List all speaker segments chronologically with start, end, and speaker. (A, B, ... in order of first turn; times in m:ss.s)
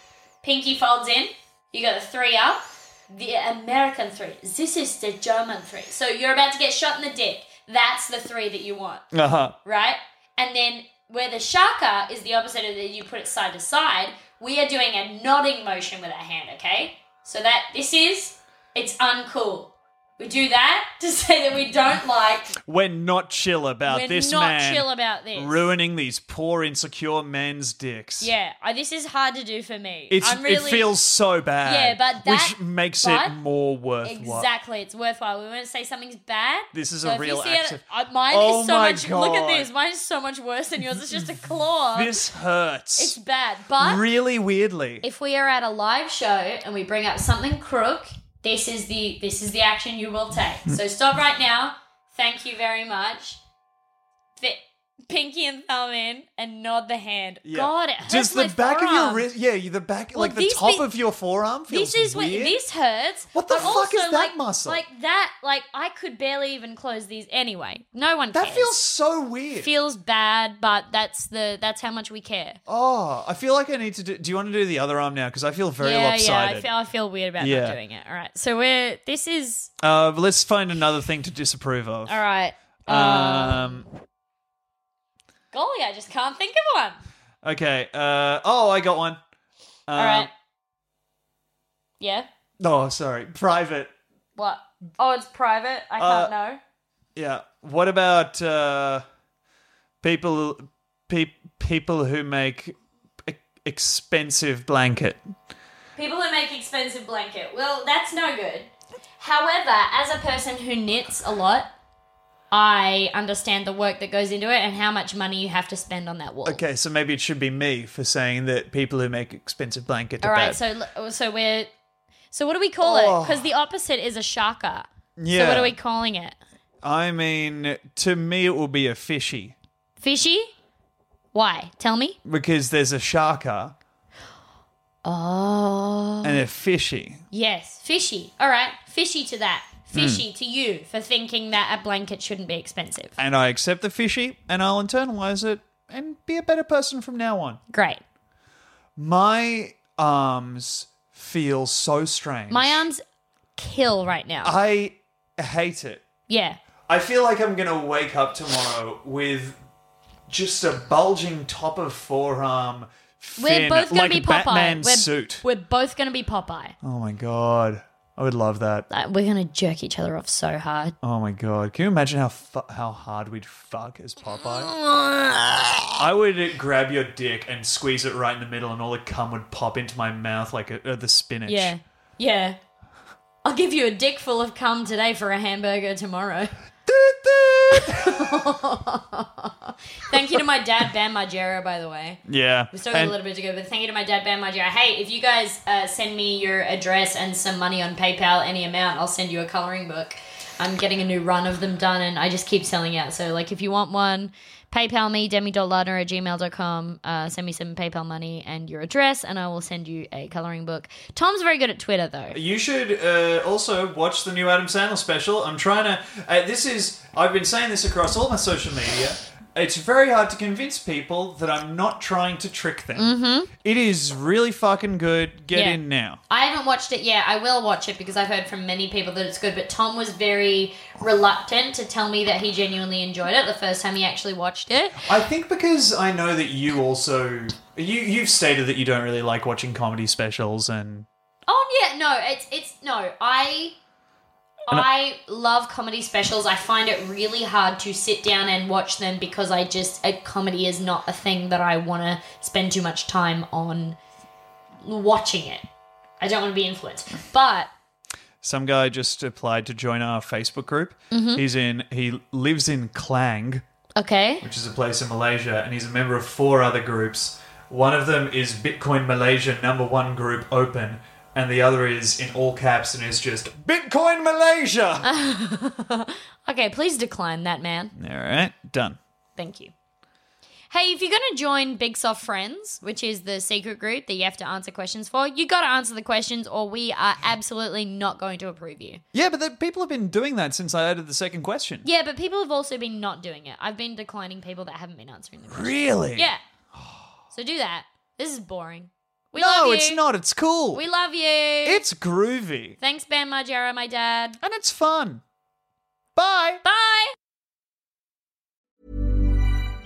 0:00.4-0:09.0 A
0:09.1-0:09.6 B
0:09.6-0:22.6 A
0:22.6-0:28.3 B
0:23.9-0:25.7 A
0:28.2-0:30.9 A
0:30.1-0:34.5 B
0:31.6-0:33.4 A
0:34.0-0:42.1 A
0:36.7-0:39.7 B
0:41.9-0:43.2 B
0:43.0-0:44.0 A
0:43.8-0:45.0 B
0:45.0-0:53.4 A
0:54.4-0:59.3 A
0:57.4-1:02.6 B
1:00.1-1:00.8 A
1:01.7-1:08.8 A
1:03.3-1:04.8 B
1:08.3-1:09.7 B
1:09.6-1:12.6 A
1:12.7-1:16.7 B
1:15.8-1:19.7 A
1:17.4-1:17.8 B
1:19.8-1:22.2 B
1:22.1-1:23.8 A
1:22.9-1:23.9 B
1:25.5-1:27.0 A
1:27.4-1:29.2 B
1:29.9-1:30.3 B
1:30.0-1:30.3 A
1:32.0-1:32.3 A
1:32.6-1:33.9 B
1:34.4-1:36.6 A
1:36.0-1:36.3 B
1:37.2-1:39.0 B
1:40.0-1:45.4 B
1:46.0-1:51.7 A
1:52.5-1:56.6 A
1:56.4-2:00.6 B
2:00.2-2:01.7 A
2:02.3-2:06.4 A
2:02.8-2:03.5 B
2:05.2-2:05.8 B
2:06.8-2:09.6 B
2:10.0-2:10.5 A
2:11.3-2:12.2 A
2:12.2-2:13.8 B
2:15.0-2:16.4 A
2:16.2-2:17.2 B
2:17.3-2:23.2 A
2:19.9-2:20.2 B
2:23.2-2:27.6 B
2:27.7-2:28.0 A
2:29.0-2:32.8 B
2:32.5-2:33.0 A
2:33.6-2:34.5 A
2:34.4-2:36.0 B
2:36.3-2:36.6 A
2:36.9-2:39.6 B
2:40.3-2:45.4 B
2:43.4-2:46.7 A
2:46.8-2:48.9 B
2:48.9-2:50.9 A
2:51.0-2:54.7 B
2:54.5-2:56.0 A
2:56.0-3:01.7 B
3:01.5-3:02.6 A
3:03.4-3:06.6 A
3:06.8-3:08.4 B
3:07.7-3:32.4 A
3:10.1-3:10.4 B
3:12.3-3:13.1 B
3:32.3-3:46.2 B
3:43.0-3:43.5 A
3:45.5-3:45.8 A
3:46.3-3:55.1 A
3:55.0-4:01.1 B
4:01.5-4:03.7 A
4:04.7-4:14.0 A
4:14.8-4:15.6 A
4:16.2-4:17.7 A
4:18.4-4:23.6 B
4:21.1-4:21.4 A
4:24.0-4:24.4 A
4:24.4-4:35.1 B
4:35.0-4:37.9 A
4:38.0-4:39.0 B
4:39.4-4:39.7 A
4:40.7-4:49.0 A
4:49.1-4:51.8 B
4:51.8-4:56.4 A
4:55.5-4:56.3 B
4:57.3-5:00.0 A
4:59.4-5:00.8 B
5:00.7-5:01.8 A
5:01.6-5:02.8 B
5:02.8-5:04.4 A
5:04.4-5:05.2 B
5:06.2-5:06.6 B
5:06.6-5:07.1 A